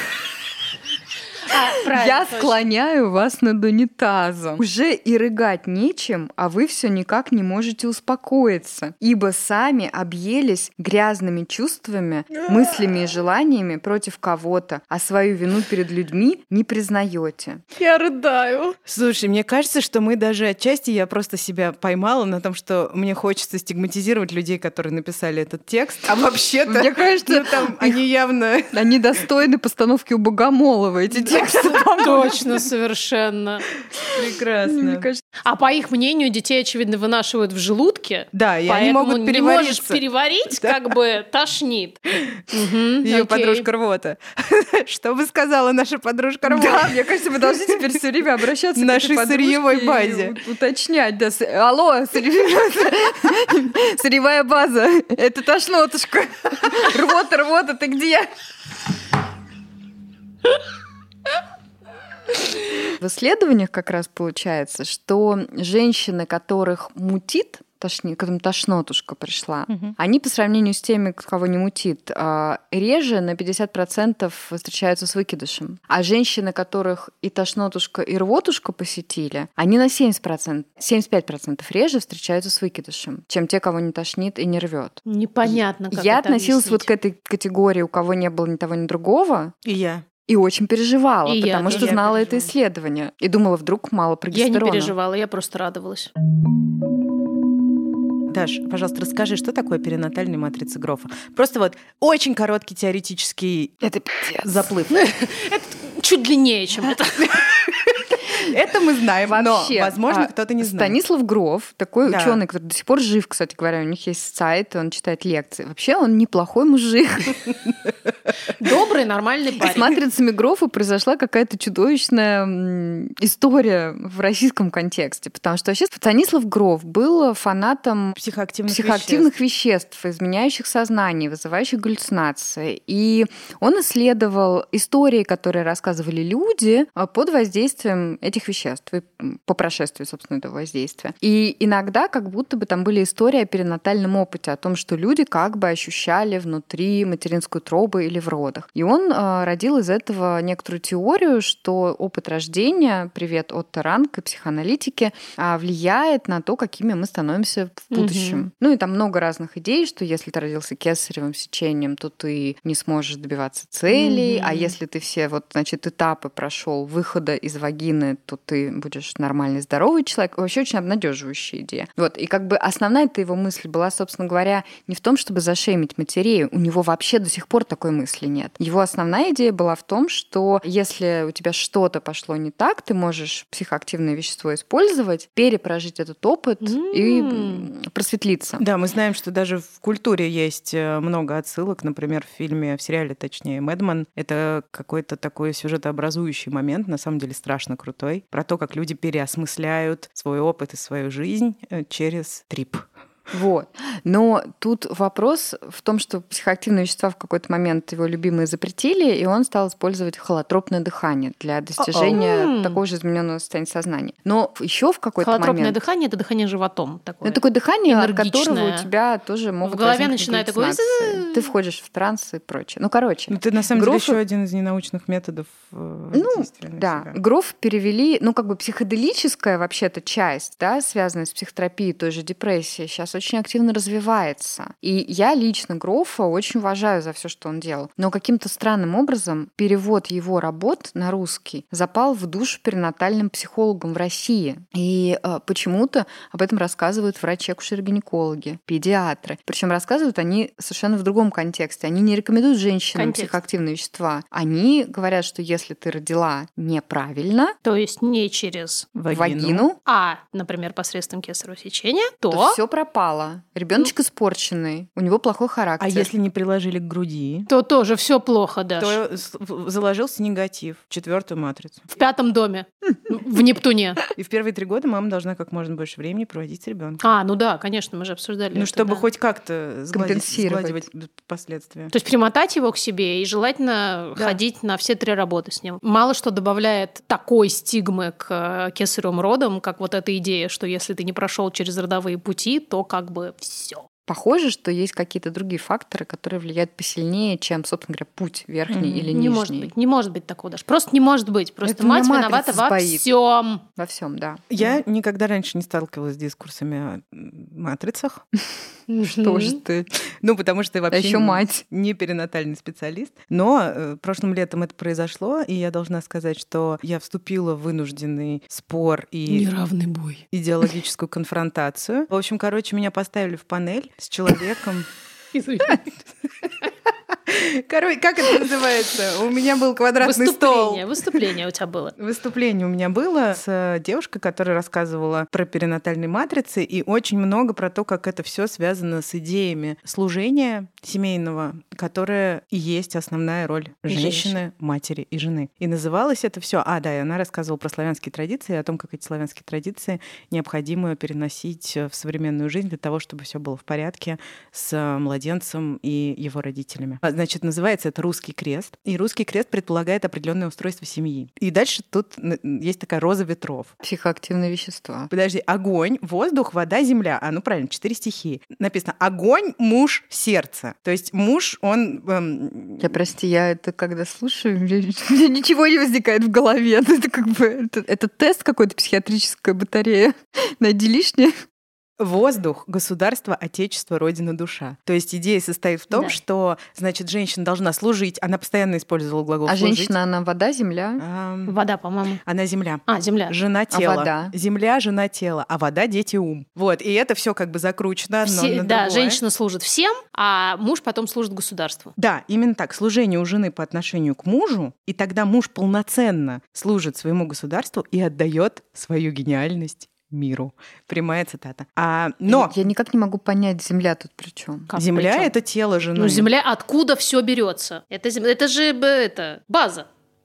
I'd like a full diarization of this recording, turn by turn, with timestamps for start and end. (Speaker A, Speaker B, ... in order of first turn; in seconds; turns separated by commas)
Speaker A: 1.5-2.6, Speaker B: 1.6-17.6, Speaker A: 17.8-18.8, Speaker C: 18.8-28.8, Speaker B: 26.6-28.0, Speaker B: 28.7-32.3, Speaker C: 31.1-32.2, Speaker A: 31.9-33.7, Speaker C: 34.1-35.1, Speaker B: 34.6-35.2, Speaker A: 35.4-43.7, Speaker C: 38.3-40.9, Speaker C: 43.0-47.8, Speaker B: 46.4-58.3, Speaker C: 48.7-50.4, Speaker B: 63.0-89.5, Speaker C: 69.7-69.9, Speaker A: 85.0-86.9, Speaker C: 89.6-90.0, Speaker B: 90.2-94.9, Speaker A: 91.2-92.4, Speaker C: 91.7-92.5, Speaker A: 94.3-96.1, Speaker C: 98.3-103.8, Speaker B: 103.8-104.6, Speaker C: 104.4-105.0, Speaker A: 104.9-107.4, Speaker C: 107.2-111.0, Speaker B: 109.2-117.5, Speaker C: 112.0-112.4, Speaker A: 118.5-120.0, Speaker B: 119.6-128.2, Speaker C: 128.2-129.3, Speaker B: 128.7-188.6, Speaker A: 157.9-158.5, Speaker A: 163.9-164.7, Speaker A: 186.6-187.7, Speaker C: 188.6-202.9, Speaker B: 203.3-215.8, Speaker C: 211.8-212.2, Speaker A: 212.1-212.8, Speaker A: 215.2-218.9, Speaker B: 217.2-224.2, Speaker A: 219.6-221.5, Speaker C: 223.3-227.2, Speaker B: 226.1-257.6, Speaker A: 252.9-253.4, Speaker A: 257.6-258.9, Speaker C: 258.9-259.6, Speaker B: 259.1-259.8, Speaker A: 259.8-262.6, Speaker B: 262.3-266.1, Speaker C: 265.8-267.5, Speaker A: 267.5-269.0, Speaker C: 268.8-271.9, Speaker A: 271.9-274.0, Speaker C: 274.1-277.1, Speaker A: 277.0-279.0, Speaker C: 278.5-281.9, Speaker B: 279.9-280.8, Speaker A: 281.9-293.9, Speaker B: 294.1-299.7, Speaker C: 298.7-299.1, Speaker A: 299.1-303.6, Speaker B: 301.6-303.0, Speaker B: 303.8-304.4, Speaker C: 304.5-308.2, Speaker A: 308.9-309.6, Speaker B: 309.0-309.9, Speaker C: 310.2-319.5, Speaker B: 310.9-311.6, Speaker A: 319.3-320.2, Speaker C: 320.3-324.9, Speaker A: 325.3-325.8, Speaker C: 326.9-331.2, Speaker A: 330.0-331.9, Speaker C: 332.0-363.7, Speaker A: 343.9-344.4, Speaker B: 363.8-365.1, Speaker C: 365.1-373.0, Speaker B: 372.8-381.4, Speaker C: 382.0-389.9, Speaker A: 385.9-386.2, Speaker B: 389.4-391.0, Speaker C: 391.0-391.6, Speaker A: 391.5-392.2, Speaker C: 392.2-399.2, Speaker A: 392.9-393.3, Speaker B: 393.7-394.3, Speaker A: 398.2-401.9, Speaker C: 402.0-412.5, Speaker B: 412.3-414.7, Speaker A: 414.7-415.3, Speaker C: 414.7-416.3, Speaker A: 415.9-419.9